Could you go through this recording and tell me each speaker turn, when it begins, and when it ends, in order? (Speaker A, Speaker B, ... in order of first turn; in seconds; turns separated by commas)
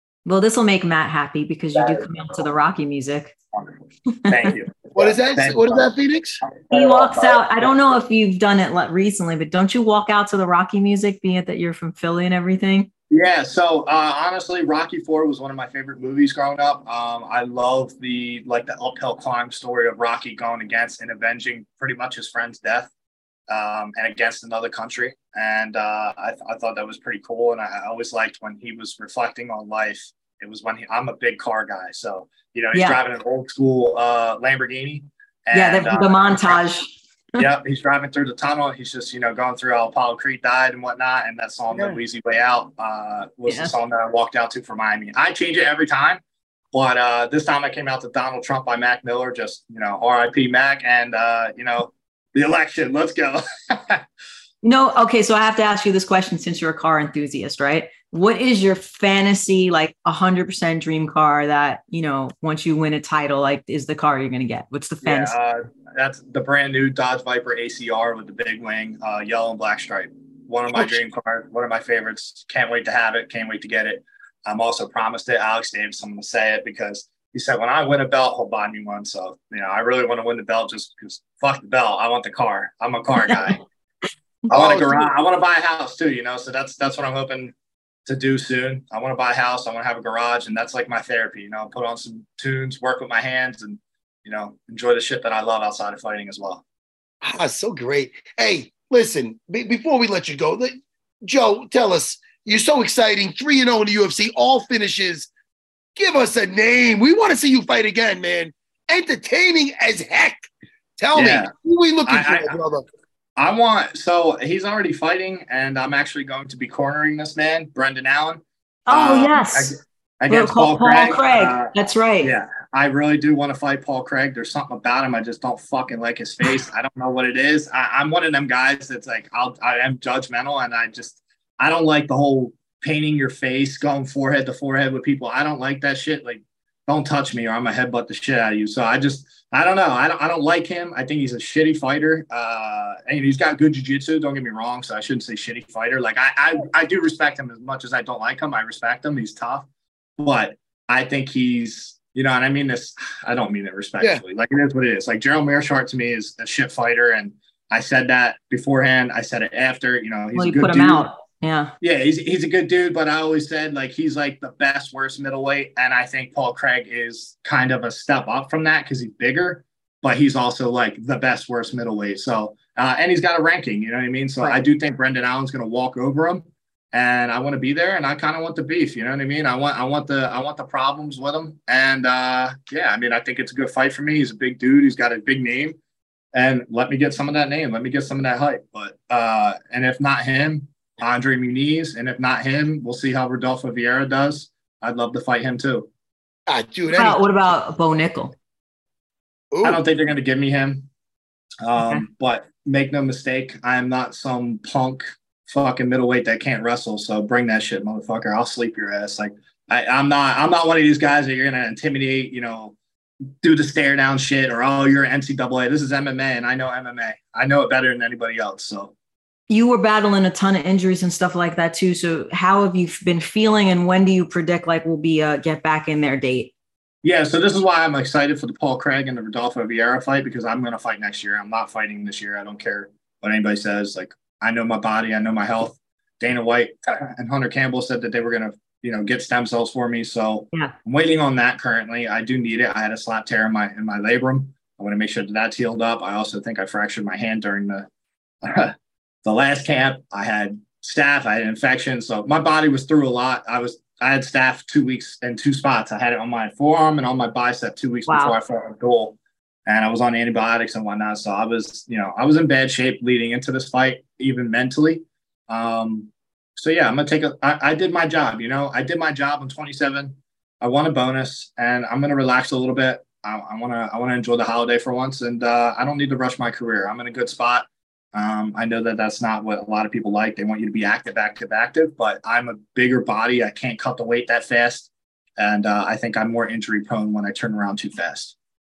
Speaker A: 0.2-3.3, Speaker B: 1.7-2.2, Speaker B: 3.5-7.4, Speaker A: 4.2-4.5, Speaker C: 4.9-6.4, Speaker A: 6.7-12.9, Speaker B: 13.1-22.9, Speaker B: 23.5-36.6, Speaker A: 32.7-33.0, Speaker A: 35.5-37.5, Speaker B: 37.4-46.2, Speaker A: 43.5-43.7, Speaker B: 46.7-54.0, Speaker A: 54.6-65.3, Speaker B: 65.0-83.6, Speaker B: 84.5-87.5, Speaker C: 84.5-84.9, Speaker B: 88.0-96.6, Speaker C: 97.2-105.3, Speaker C: 106.0-112.9, Speaker B: 111.1-111.5, Speaker B: 112.1-112.6, Speaker B: 113.4-149.7, Speaker A: 118.9-119.7, Speaker A: 120.3-122.3, Speaker B: 150.2-161.1, Speaker A: 160.3-161.7, Speaker B: 161.8-185.8, Speaker B: 186.3-195.9, Speaker C: 196.5-197.2, Speaker A: 196.9-198.3, Speaker C: 199.5-199.8, Speaker B: 199.6-200.9, Speaker B: 201.6-212.7, Speaker A: 201.8-202.1, Speaker B: 213.4-218.9, Speaker A: 219.5-226.5, Speaker B: 227.0-247.9, Speaker B: 248.4-288.3, Speaker A: 258.1-258.4